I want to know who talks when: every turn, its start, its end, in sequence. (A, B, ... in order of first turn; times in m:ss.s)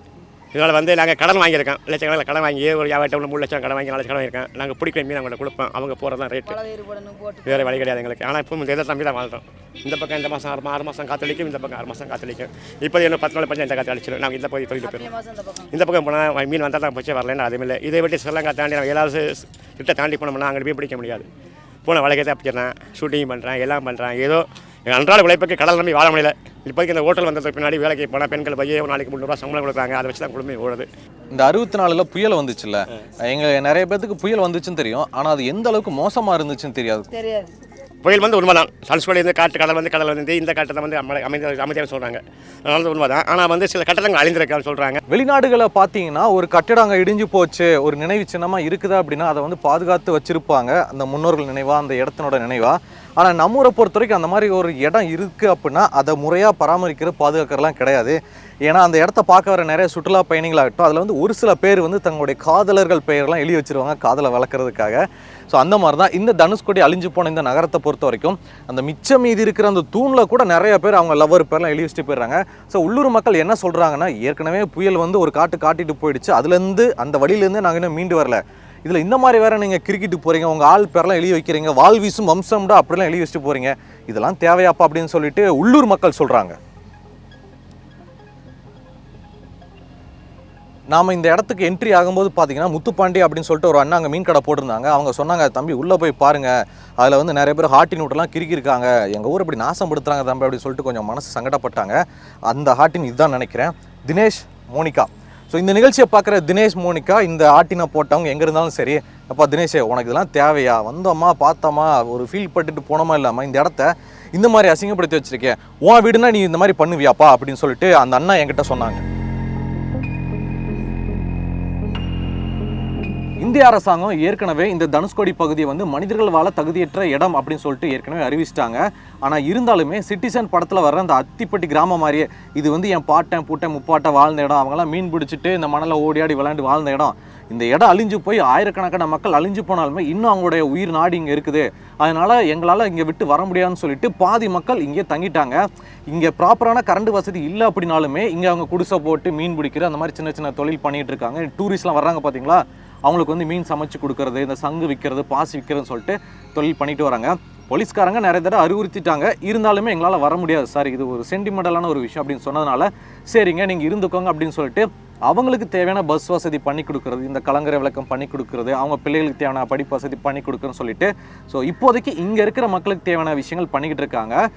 0:00.5-0:06.6 A
0:06.4-0:07.8 B
0:07.4-0:15.1 A
0:14.8-0:15.7 B
0:15.7-0:21.3 A
0:21.8-0:30.9 A
0:31.3-0:37.1 C
0:37.1-0:37.5 B
0:38.0-0:45.0 A
0:45.1-1:26.6 C
1:30.9-1:59.0 C
2:03.4-2:54.4 C